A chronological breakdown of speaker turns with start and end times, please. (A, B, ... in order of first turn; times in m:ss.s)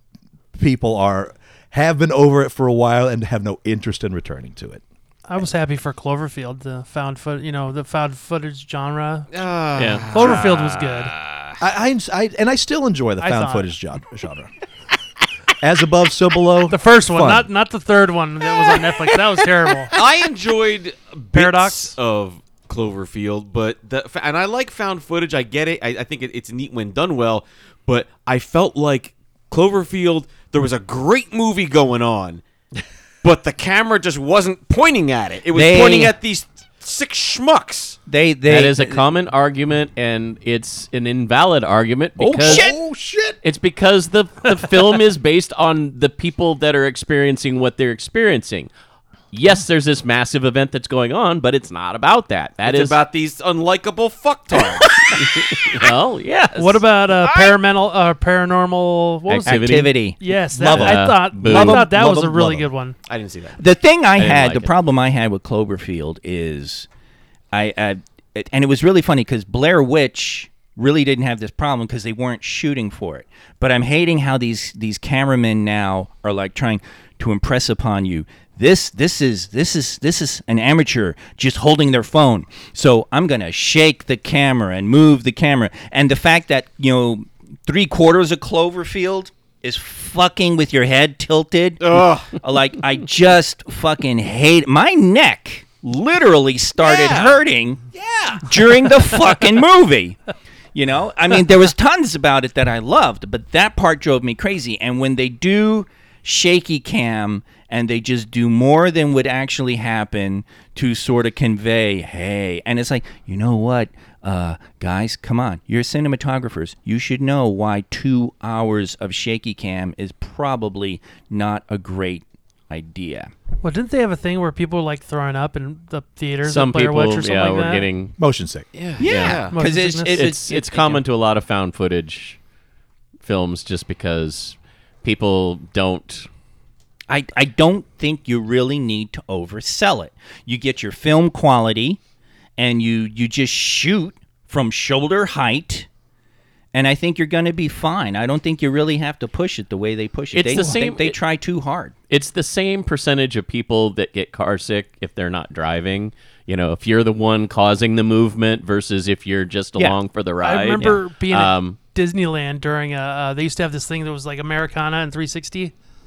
0:00.6-0:04.8 A
0:05.3-0:09.3 B
0:09.3-0:11.6 C
0:09.8-0:10.3 D
0:10.1-0:11.1 B
0:11.6-0:14.5 A
0:13.2-0:13.7 B
0:15.6-0:17.5 A
0:16.7-0:19.9 B
0:19.9-0:32.4 C
0:21.3-0:22.0 B
0:33.2-0:38.0 C
0:35.5-0:36.2 E
0:38.1-0:39.0 E
0:38.5-0:42.7 D
0:42.2-0:43.4 A
0:42.4-0:42.7 E
0:43.4-0:48.7 D
0:49.3-0:53.0 D
0:52.6-0:55.1 C
0:55.1-0:56.8 D
0:56.5-1:03.0 B
0:57.2-0:57.6 E
0:59.3-1:00.0 D
0:59.4-1:00.2 E
1:00.5-1:02.7 A
1:00.7-1:01.9 D
1:03.1-1:03.6 C
1:03.6-1:06.9 E
1:04.2-1:04.7 D
1:07.5-1:37.8 E
1:31.8-1:32.3 C
1:36.8-1:37.4 C
1:37.9-1:38.5 C
1:38.4-1:40.2 E
1:40.7-2:03.3 E
2:03.6-2:07.9 B
2:06.4-2:08.2 D
2:08.2-2:08.7 A
2:08.7-2:09.6 C
2:09.0-2:11.0 E
2:09.0-2:09.5 D
2:09.5-2:10.2 B
2:10.1-2:12.4 D
2:13.2-2:16.3 D
2:17.1-2:22.0 E
2:22.6-2:25.9 E
2:26.7-2:31.9 E
2:30.3-2:31.2 D
2:32.1-2:41.8 D
2:39.8-2:45.7 B